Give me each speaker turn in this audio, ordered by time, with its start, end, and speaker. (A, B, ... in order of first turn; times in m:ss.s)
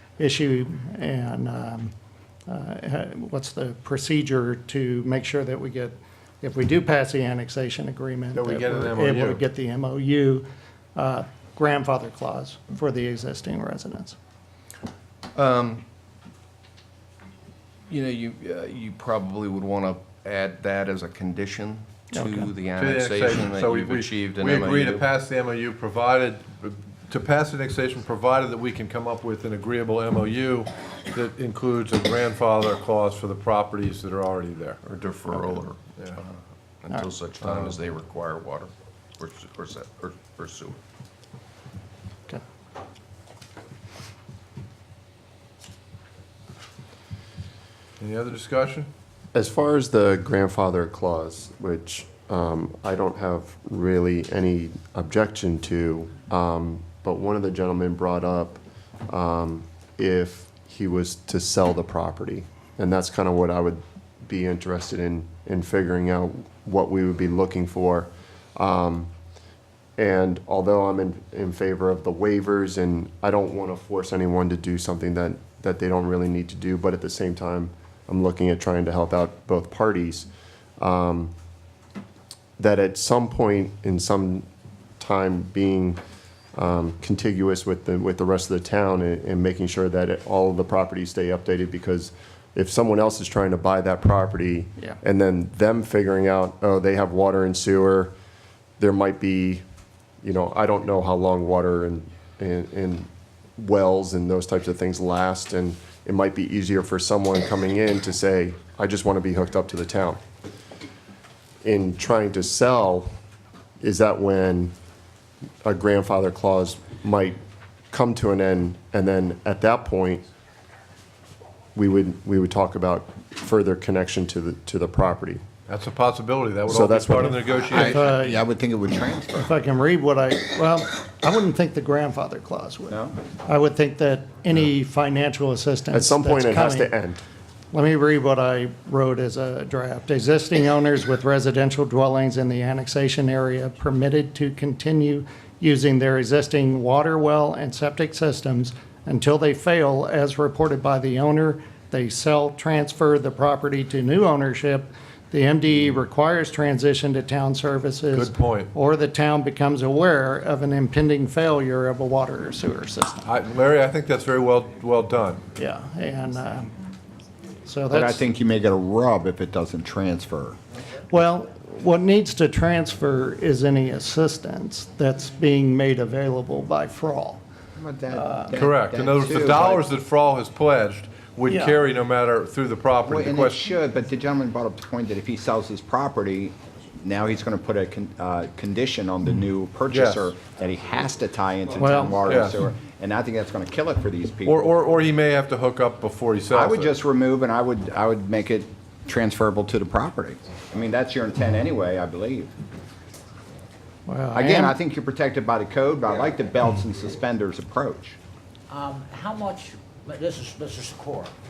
0:00.2-0:01.9 A
0:02.5-0:14.2 A
0:08.3-0:09.4 B
0:15.4-0:15.8 C
0:17.9-0:25.1 C
0:22.1-0:22.5 A
0:22.8-0:34.8 B
0:34.8-0:40.8 C
0:37.4-0:37.7 B
0:48.0-0:48.9 B
0:49.3-1:09.1 D
1:10.0-1:20.3 D
1:20.8-1:21.3 D
1:22.6-1:24.5 D
1:25.0-1:26.0 D
1:26.6-1:38.1 D
1:38.8-1:39.6 D
1:40.2-1:50.2 D
1:51.6-1:53.1 D
1:53.8-1:54.7 D
1:55.6-1:57.4 D
1:57.9-2:00.3 D
2:01.8-2:05.4 D
2:05.7-2:08.0 B
2:06.7-2:07.6 D
2:07.7-2:09.5 E
2:07.7-2:08.4 A
2:09.4-2:16.9 A
2:12.9-2:13.2 E
2:15.9-2:17.2 D
2:17.7-2:43.2 A
2:38.1-2:38.7 B
2:43.2-2:45.5 B
2:45.6-2:46.8 A
2:47.6-2:48.2 A
2:47.9-2:50.6 E
2:51.1-2:57.4 A
2:57.8-2:59.9 E
2:58.2-2:58.5 A
2:58.5-3:03.7 B
3:01.5-3:01.8 A
3:03.0-3:14.8 E
3:09.9-3:10.3 B
3:11.8-3:12.3 A
3:12.2-3:12.6 B
3:14.4-3:17.0 B
3:16.5-3:22.5 E
3:24.1-3:24.8 A
3:24.3-3:28.2 E
3:28.7-3:31.3 F